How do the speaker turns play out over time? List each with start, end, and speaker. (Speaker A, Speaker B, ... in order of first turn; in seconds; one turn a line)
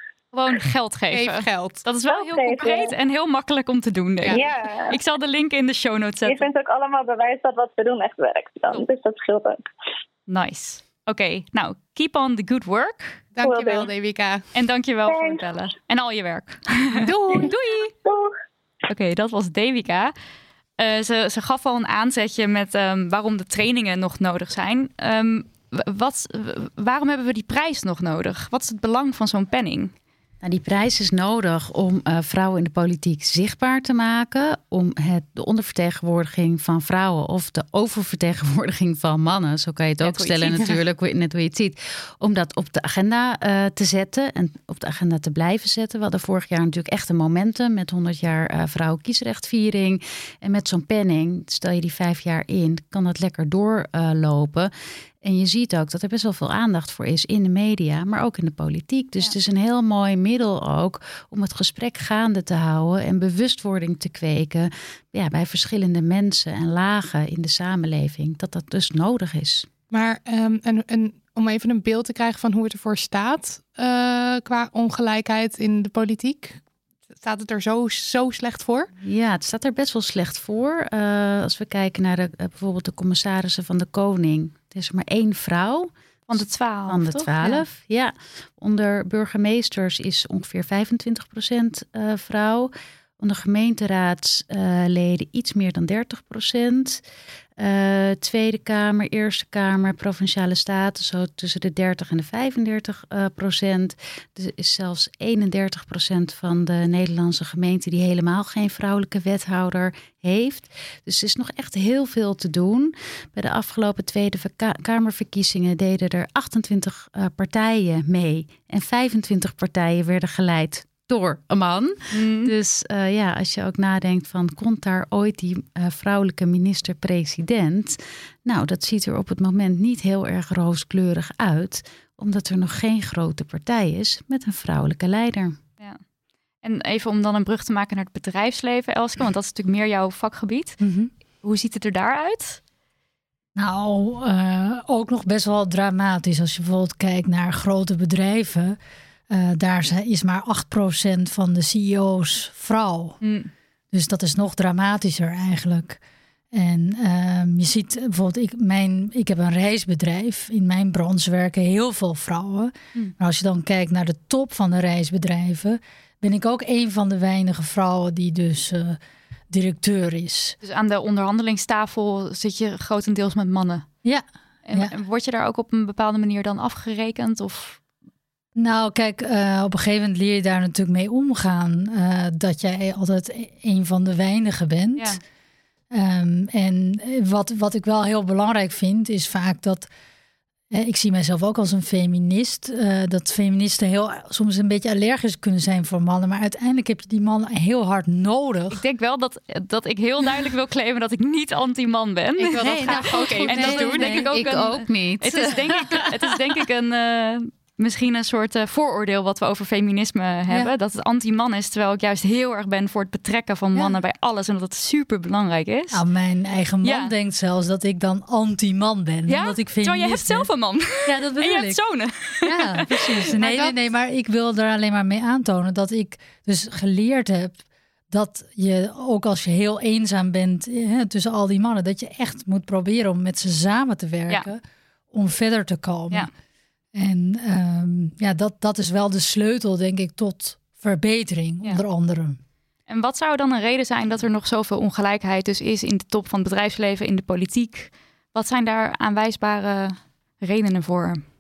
Speaker A: 0.3-6.5
Speaker B: 1.1-1.8
Speaker C: 2.1-2.9
Speaker C: 4.3-5.0
Speaker C: 6.2-9.6
Speaker A: 10.3-13.2
Speaker B: 13.3-14.4
Speaker C: 13.4-13.9
Speaker A: 14.5-17.9
Speaker C: 15.1-15.4
Speaker B: 16.9-17.5
Speaker C: 18.0-18.3
Speaker A: 18.9-20.1
Speaker A: 20.8-29.9
Speaker D: 30.4-54.7
Speaker A: 40.0-40.5
Speaker D: 55.2-69.7
Speaker B: 69.9-76.6
Speaker B: 77.2-78.9
Speaker D: 79.0-97.0
Speaker A: 86.3-87.6
Speaker D: 97.6-135.6
Speaker A: 122.1-122.5
Speaker A: 136.6-140.8
Speaker E: 140.8-141.1
Speaker A: 141.4-142.6
Speaker E: 143.6-148.8
Speaker E: 149.3-153.2
Speaker A: 153.2-153.5
Speaker E: 153.9-156.0
Speaker E: 156.5-169.0
Speaker E: 169.5-170.6
Speaker A: 170.6-173.9
Speaker E: 174.0-174.9
Speaker A: 174.6-177.8
Speaker E: 178.6-185.2
Speaker E: 185.9-189.9
Speaker E: 190.7-198.8
Speaker A: 198.7-216.0
Speaker B: 202.5-204.1
Speaker D: 202.6-205.7
Speaker E: 202.6-204.2
Speaker E: 215.9-220.5
Speaker A: 216.8-217.1
Speaker A: 219.3-223.7
Speaker E: 221.1-221.8
Speaker E: 222.4-227.6
Speaker E: 228.1-236.3
Speaker E: 236.9-242.4
Speaker A: 242.9-251.2